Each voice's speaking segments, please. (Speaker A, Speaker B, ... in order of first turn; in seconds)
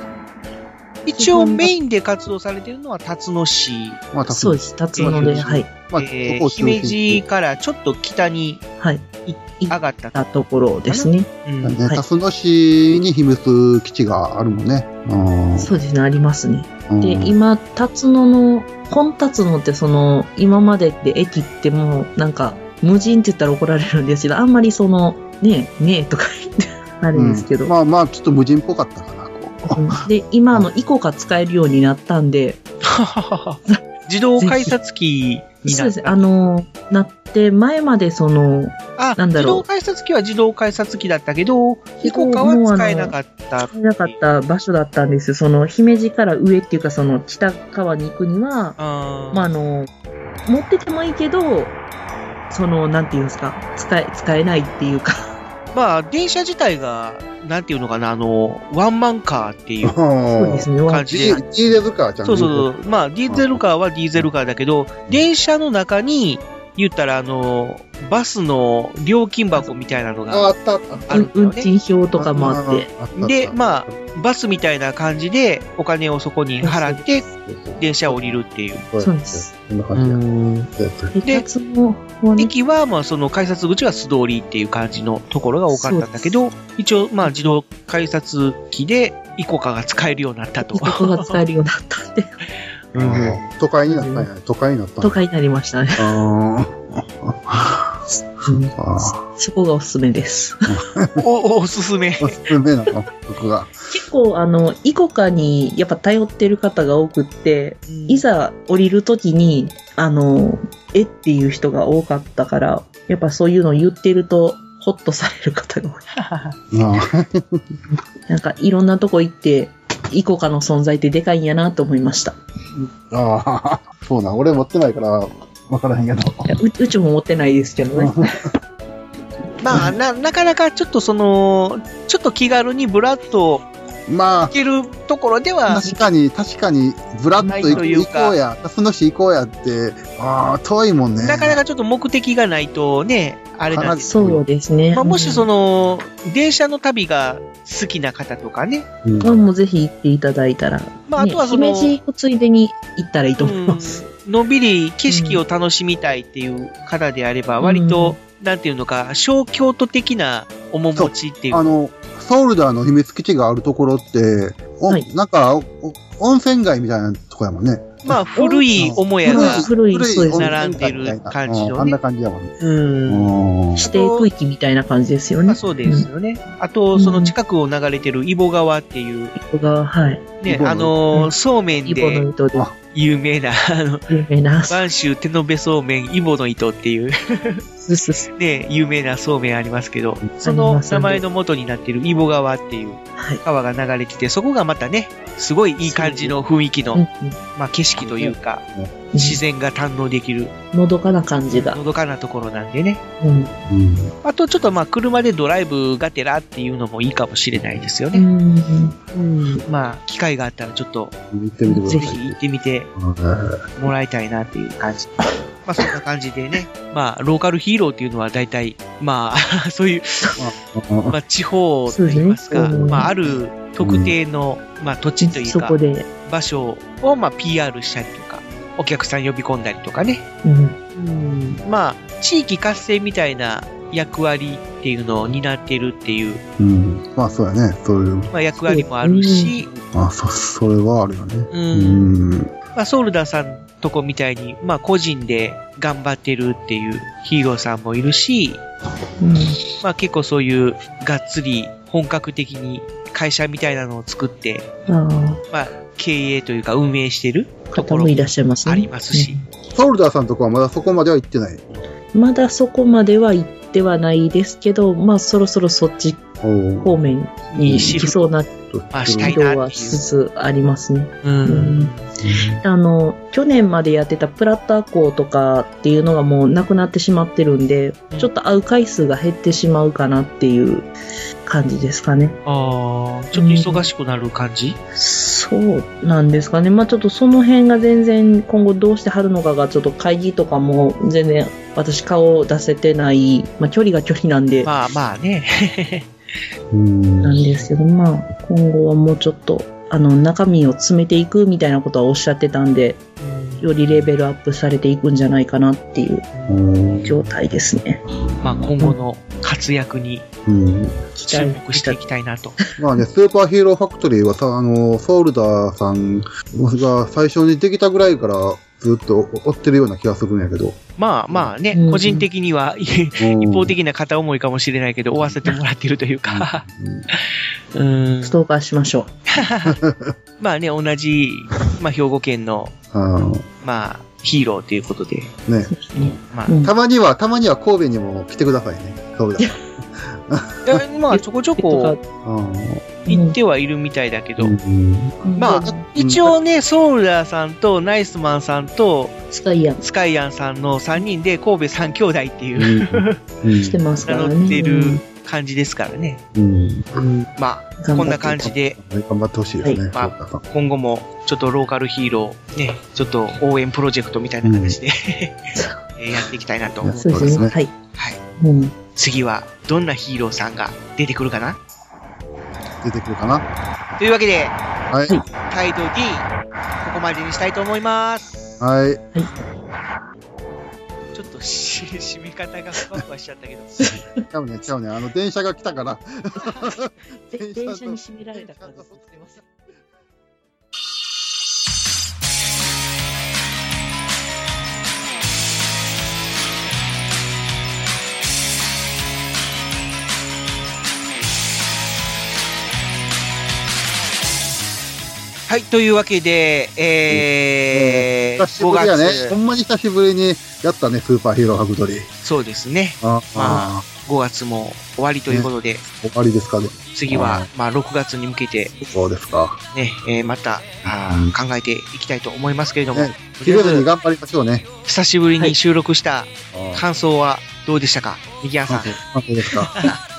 Speaker A: 1.1-4.0, 4.9-8.6, 9.3-10.3, 10.9-11.8, 32.9-36.3, 39.0-44.2, 48.8-49.5, 55.7-60.0, 60.9-61.4, 62.2-71.7, 73.2-77.3, 77.8-78.8, 79.9-80.7, 82.4-91.3, 92.9-93.5, 101.2-102.3, 107.9-108.2, 116.2-116.5, 129.6-133.6, 134.5-135.9, 137.5-138.4, 141.2-144.4, 144.9-148.9, 151.1-152.0, 153.4-161.7, 168.0-172.0, 172.6-174.3, 175.4-179.3, 180.4-182.2, 182.9-184.2, 184.7-187.6, 188.4-197.0, 197.6-198.6, 199.2-200.5, 201.5-203.0, 204.2-208.2, 209.1-211.1, 211.8-212.9, 213.8-220.3, 221.1-230.2, 231.1-236.4, 238.3-239.7, 241.5-242.1, 242.7-248.6, 249.8-254.7, 255.5-259.4, 267.5-268.3, 268.9-270.0, 271.2-272.1, 282.4-284.8, 294.6-296.1, 303.2-303.6, 308.4-310.2, 311.2-312.6, 321.0-326.6, 327.7-328.4, 329.4-329.8, 330.4-332.7, 333.6-335.3, 336.3-336.6, 340.6-341.9, 343.1-344.5, 345.4-349.2, 349.8-353.2, 354.1-356.2, 356.9-358.8, 359.9-368.2, 368.9-371.6, 374.0-374.6, 375.5-376.3, 376.8-378.4, 381.1-383.8, 405.5-409.4, 412.2-415.8, 416.9-418.8, 419.7-423.9, 424.9-429.0
Speaker B: 1.1-1.7, 4.2-5.7, 8.8-11.3, 15.6-27.7, 29.7-32.6, 34.4-34.8, 35.6-39.6, 42.0-48.8, 49.3-49.9, 50.4-51.8, 52.5-55.3, 60.2-61.5, 71.1-72.9, 76.6-77.1, 79.0-79.5, 81.1-82.5, 85.7-86.3, 87.2-87.6, 90.7-92.3, 93.8-94.3, 95.0-96.0, 98.1-100.7, 103.9-116.0, 118.3-122.4, 126.5-128.1, 137.4-138.0, 144.0-145.5, 149.2-154.1, 155.1-155.4, 157.6-158.2, 168.3-170.6, 173.8-176.1, 176.9-177.3, 179.3-180.3, 181.8-182.6, 184.1-184.9, 187.8-188.3, 190.4-191.2, 193.2-193.4, 195.8-196.4, 196.9-197.4, 199.1-199.4, 200.7-201.8, 203.2-203.6, 208.1-209.0, 211.7-212.1, 221.9-223.1, 225.2-226.1, 230.4-231.6, 238.6-239.8, 249.2-249.6, 254.9-255.4, 257.7-259.4, 262.1-266.2, 266.8-268.5, 269.1-271.9, 272.6-280.9, 281.4-282.4, 283.3-283.9, 284.9-294.7, 297.2-303.0, 303.6-306.3, 307.0-308.0, 311.1-312.0, 321.7-322.3, 328.2-329.1, 335.7-336.7, 341.1-342.0, 343.1-343.4, 345.2-345.9, 349.3-349.8, 353.6-355.0, 357.8-358.4, 365.5-365.8, 367.0-367.7, 368.4-368.8, 383.8-384.2, 387.3-389.4
Speaker C: 4.1-7.2, 11.6-15.7, 16.9-17.4, 27.1-30.7, 59.8-62.7, 63.3-63.6, 70.3-71.1, 72.1-74.0, 77.4-81.2, 92.9-95.2, 96.0-97.9, 98.5-99.2, 100.7-101.2, 102.2-103.7, 116.7-117.6, 122.8-126.5, 127.9-128.5, 134.1-134.5, 135.7-141.6, 143.7-144.4, 149.0-149.5, 160.9-168.2, 168.8-172.5, 173.1-173.9, 180.5-180.9, 198.0-198.9, 203.7-204.1, 207.5-207.8, 211.3-212.4, 212.9-213.6, 220.4-221.2, 222.5-224.1, 236.6-238.3, 239.9-242.5, 259.7-261.8, 266.4-267.1, 267.6-268.1, 268.6-269.3, 272.2-272.6, 296.7-297.6, 306.5-307.3, 310.4-311.0, 312.8-320.8, 323.2-323.7, 326.2-327.1, 329.6-330.1, 332.9-333.4, 335.4-336.1, 336.6-339.6, 340.3-340.8, 342.2-342.9, 344.4-346.3, 352.6-353.8, 356.3-357.1, 358.4-360.4, 364.4-364.8, 366.8-367.6, 372.8-373.4, 374.9-375.2, 378.6-379.0, 383.9-389.4, 407.1-412.1, 413.0-413.8, 415.3-417.5, 418.8-419.6, 420.8-421.3, 422.9-424.6, 426.5-426.8, 428.7-429.7